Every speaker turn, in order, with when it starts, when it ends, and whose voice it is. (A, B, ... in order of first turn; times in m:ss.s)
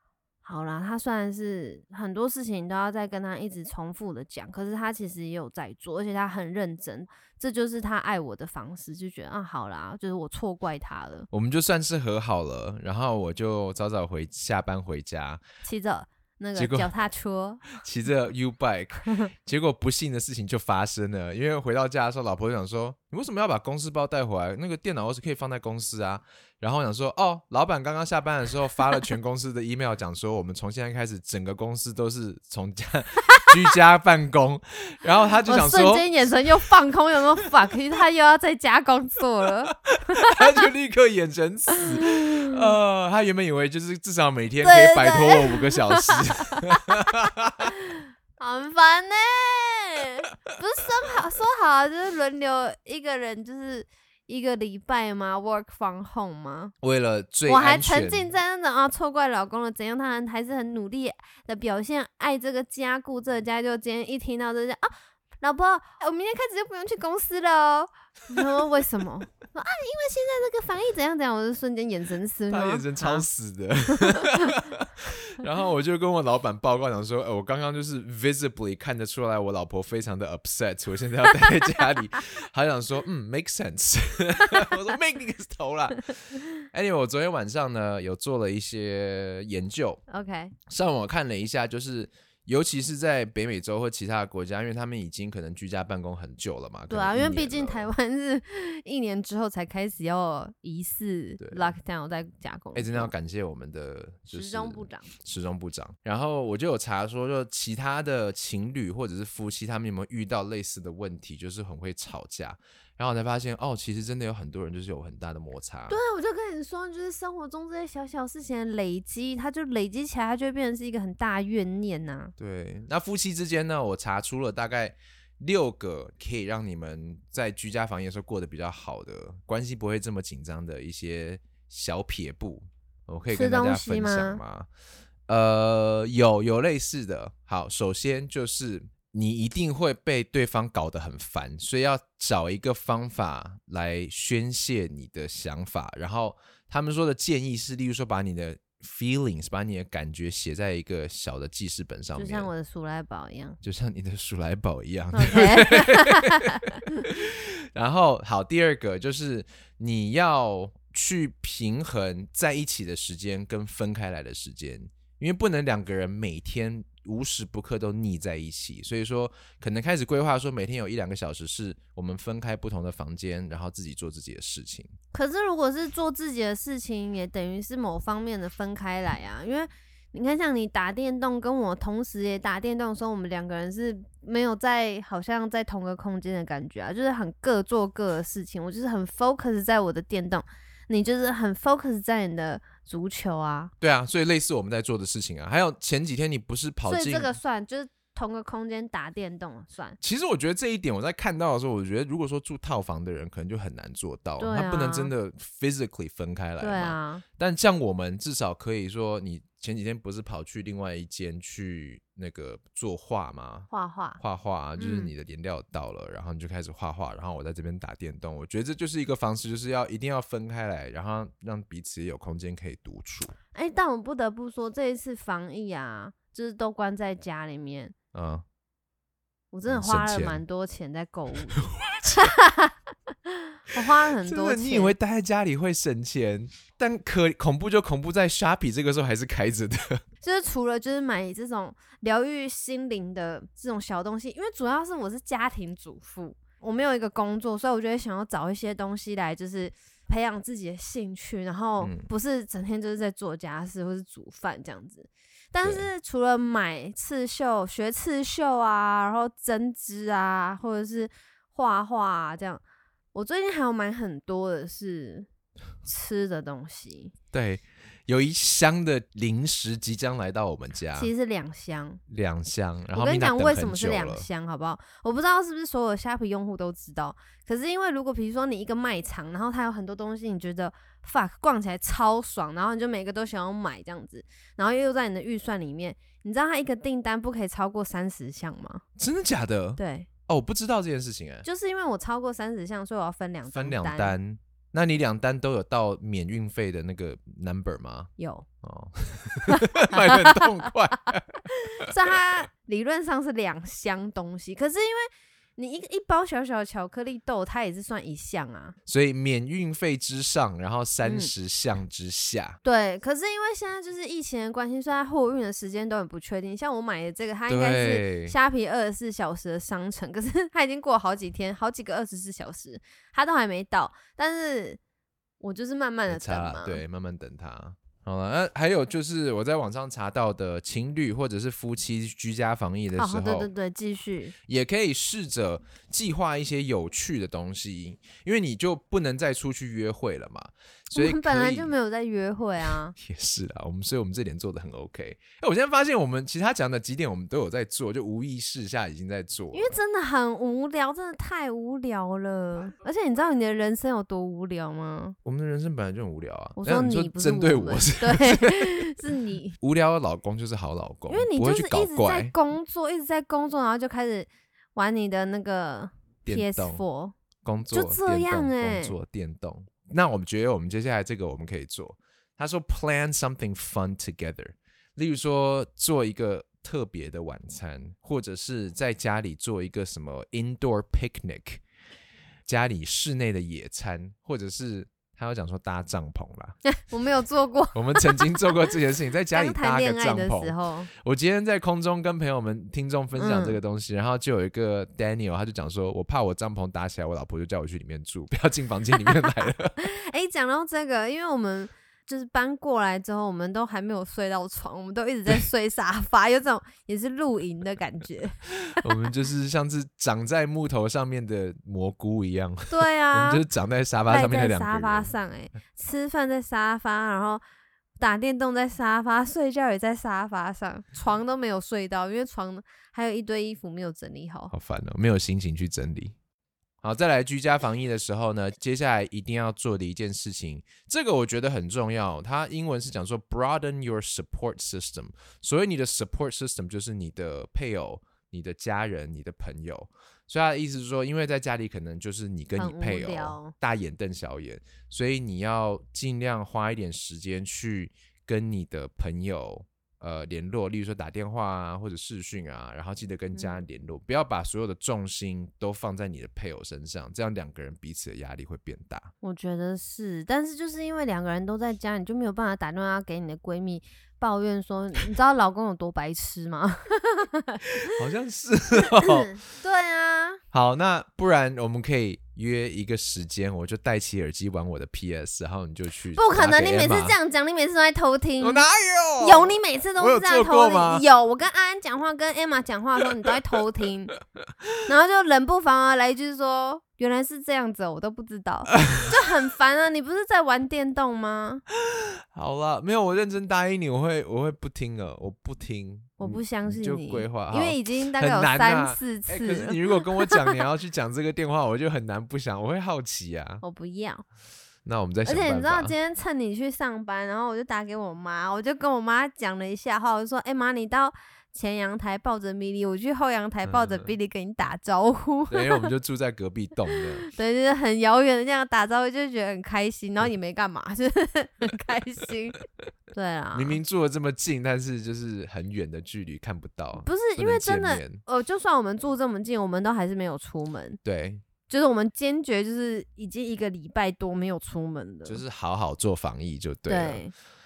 0:00.4-0:11.3 A
0:11.3-0:15.4 B
0:15.6-0:17.6 A
0:16.6-0:16.9 B
0:17.7-0:36.7 B
0:35.5-0:40.6 A
0:39.9-0:47.7 B
0:41.8-0:42.6 A
0:44.6-0:56.7 A
0:56.8-0:58.3 B
0:57.5-1:13.3 A
1:12.5-1:30.0 B
1:14.0-1:14.6 A
1:30.1-1:30.5 A
1:30.7-1:37.9 B
1:36.9-1:43.1 A
1:41.4-1:41.7 B
1:42.8-1:56.0 B
1:44.3-1:45.1 A
1:55.9-2:02.3 A
2:02.4-2:14.7 B
2:13.3-2:14.4 A
2:15.3-2:32.5 B
2:32.2-2:33.6 A
2:33.6-2:54.9 B
2:35.1-2:36.6 A
2:55.1-3:13.7 A
3:13.8-3:17.4 B
3:16.9-3:20.0 A
3:20.0-3:43.4 B
3:24.4-3:25.1 A
3:26.6-3:27.2 A
3:33.7-3:34.2 A
3:34.8-3:35.1 A
3:43.5-3:48.0 A
3:48.1-3:48.4 B
3:49.5-3:52.8 A
3:49.7-3:50.4 B
3:51.6-3:52.3 B
3:53.3-3:55.0 A
3:53.8-4:00.0 B
4:00.2-4:22.6 A
4:11.8-4:12.1 B
4:15.6-4:15.9 B
4:23.1-4:25.3 A
4:25.8-4:27.1 A
4:27.3-4:31.1 B
4:31.0-4:32.0 A
4:32.1-4:34.3 B
4:32.9-4:48.8 A
4:49.0-4:51.5 B
4:49.8-4:50.1 A
4:51.4-4:54.2 A
4:53.5-4:58.1 B
4:58.2-4:58.5 A
4:58.6-5:01.9 B
4:59.5-5:00.7 A
5:01.5-5:08.8 A
5:08.9-5:12.6 B
5:11.0-5:11.3 A
5:12.6-5:24.8 A
5:17.5-5:18.4 B
5:25.4-5:26.8 A
5:26.1-5:33.5 B
5:32.9-5:34.4 A
5:34.5-5:41.7 B
5:40.9-5:43.0 A
5:43.0-5:49.7 B
5:49.5-5:55.2 A
5:55.2-5:58.9 B
5:56.6-5:59.6 A
5:59.6-6:02.4 B
6:01.1-6:07.2 A
6:06.2-6:06.8 B
6:07.4-6:21.6 B
6:07.7-6:08.9 A
6:22.5-6:26.6 B
6:26.6-6:28.7 A
6:27.7-6:39.8 B
6:29.3-6:30.9 A
6:33.2-6:33.6 A
6:39.8-6:48.8 A
6:48.8-6:55.1 B
6:52.7-6:53.4 A
6:54.1-6:57.4 A
6:58.0-7:04.5 A
7:04.5-7:06.2 B
7:06.8-7:39.1 B
7:22.6-7:23.5 A
7:33.4-7:33.6 A
7:39.2-7:48.0 A
7:47.9-7:49.3 B
7:49.0-7:50.4 A
7:50.5-7:57.2 B
7:56.2-7:58.7 A
7:58.4-8:01.1 B
7:59.2-8:04.1 A
8:04.8-8:11.6 A
8:08.7-8:09.1 B
8:11.8-8:23.6 B
8:16.2-8:20.6 A
8:23.6-8:24.2 A
8:24.8-8:26.0 B
8:25.2-8:35.9 A
8:33.6-8:34.1 B
8:35.5-8:37.3 B
8:37.2-8:43.8 A
8:43.5-8:48.2 B
8:47.0-8:51.0 A
8:51.0-8:51.4 B
8:51.7-8:55.4 A
8:55.3-8:57.2 B
8:56.9-8:57.3 A